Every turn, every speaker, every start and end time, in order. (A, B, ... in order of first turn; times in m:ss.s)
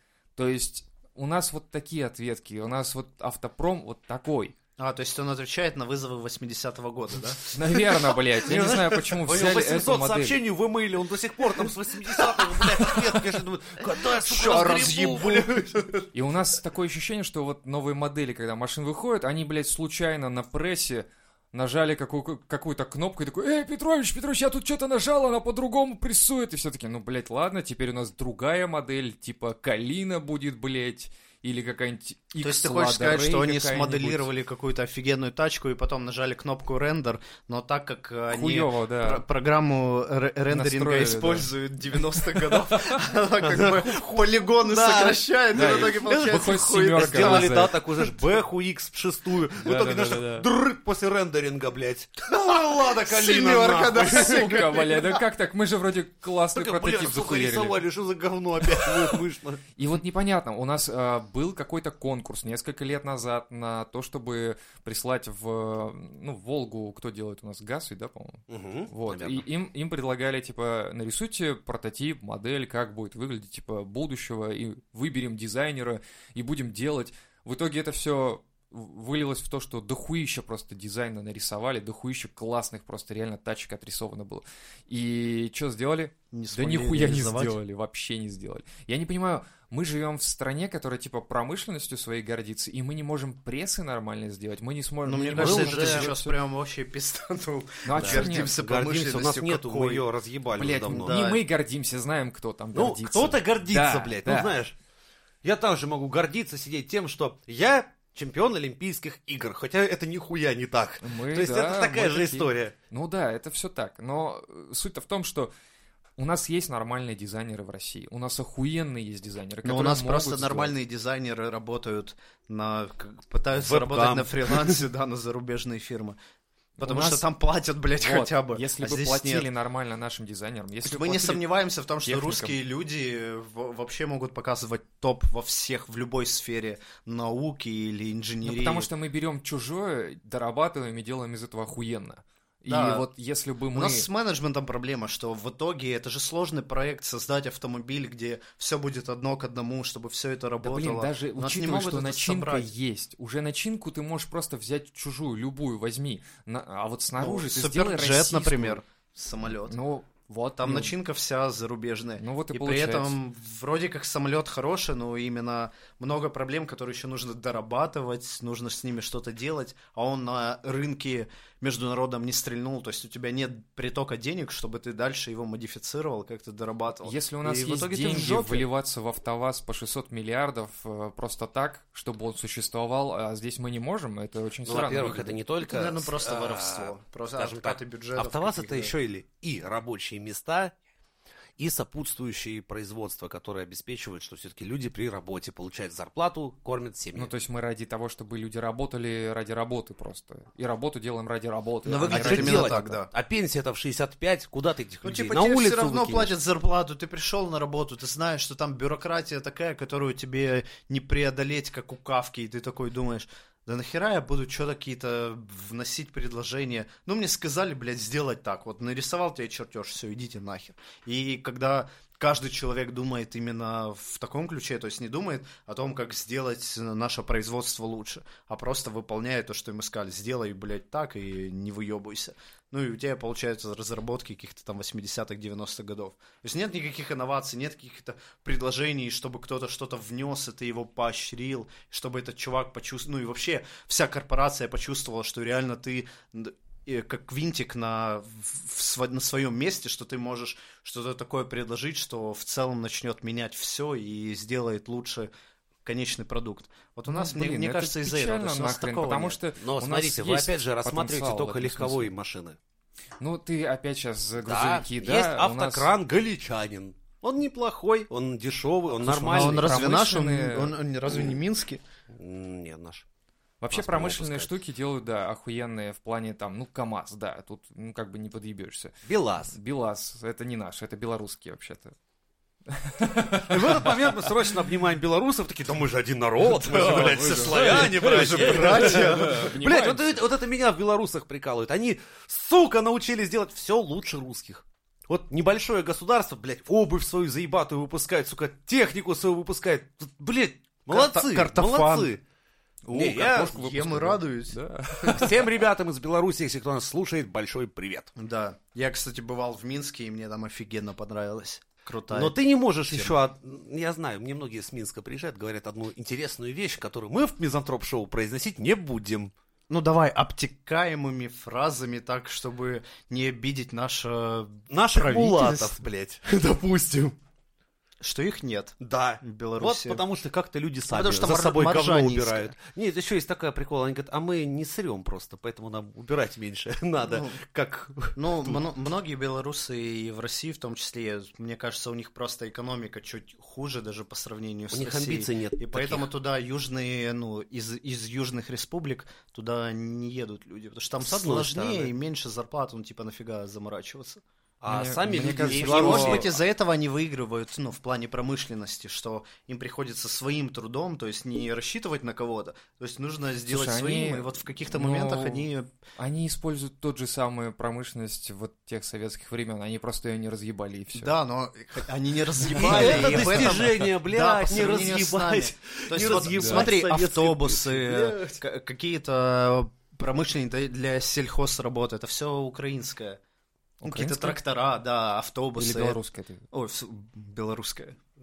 0:00.4-0:04.6 A
0:04.8-0:07.4 B
0:07.5-0:10.4 A
0:08.4-0:15.8 C
0:14.0-0:16.1 B
0:16.1-0:34.3 A
0:32.4-0:47.6 B
0:38.3-0:39.2 A
0:40.5-0:41.5 A
0:42.1-0:43.0 A
0:43.4-0:54.5 C
0:45.5-0:47.8 A
0:49.6-0:50.4 A
0:52.3-0:55.2 B
0:54.0-0:57.8 A
0:56.5-0:59.6 C
0:58.6-0:59.2 A
0:59.8-1:36.3 A
1:08.5-1:09.4 C
1:26.3-1:27.6 B
1:35.0-1:40.1 B
1:35.3-1:36.1 C
1:37.8-1:38.5 A
1:37.9-1:41.2 C
1:40.6-1:44.6 A
1:40.9-1:41.4 B
1:42.7-1:44.7 C
1:45.4-1:52.7 C
1:51.0-1:55.5 A
1:56.2-2:00.7 A
1:59.6-2:06.2 B
2:03.6-2:04.8 C
2:06.8-2:07.3 A
2:06.8-2:09.5 B
2:08.0-2:11.4 A
2:10.8-2:18.9 B
2:12.0-2:12.6 A
2:18.4-2:24.0 A
2:22.7-2:23.1 B
2:23.7-2:32.7 B
2:30.6-2:38.8 A
2:37.2-2:39.8 B
2:39.5-2:40.9 A
2:40.6-2:58.7 B
2:42.2-2:43.2 A
2:57.0-3:05.4 A
3:04.6-3:10.7 C
3:05.6-3:08.9 B
3:11.6-3:17.3 C
3:17.1-3:23.0 A
3:21.8-3:23.1 B
3:22.1-3:26.3 C
3:25.0-4:15.3 B
4:15.8-4:19.4 B
4:17.1-4:22.1 A
4:19.6-4:22.6 C
4:23.2-4:25.9 A
4:24.4-4:29.7 C
4:29.0-4:30.8 A
4:29.3-4:31.8 B
4:32.1-4:33.0 C
4:33.6-4:39.0 A
4:33.7-4:34.5 C
4:39.0-4:39.6 C
4:39.5-4:41.9 A
4:42.7-4:44.1 A
4:43.4-5:02.2 C
4:46.4-4:50.2 A
4:47.0-4:49.5 B
5:00.9-5:02.1 B
5:02.8-5:05.3 B
5:02.9-5:03.5 C
5:03.2-5:05.4 A
5:05.1-5:08.1 C
5:08.2-5:12.4 B
5:12.1-5:19.3 C
5:12.9-5:13.2 B
5:19.7-5:25.8 B
5:24.7-5:27.2 C
5:28.0-5:30.0 B
5:28.8-5:38.6 C
5:30.9-5:32.5 B
5:37.0-5:37.4 B
5:38.1-5:54.2 B
5:44.7-5:46.1 C
5:51.0-5:51.9 C
5:54.6-5:56.3 C
5:54.7-5:56.3 A
5:55.4-6:05.7 B
6:03.5-6:11.1 A
6:10.9-6:23.2 B
6:12.5-6:13.8 A
6:12.5-6:18.4 C
6:16.3-6:16.7 A
6:23.8-6:24.4 A
6:23.8-6:26.0 B
6:25.6-6:26.4 A
6:26.5-6:28.0 B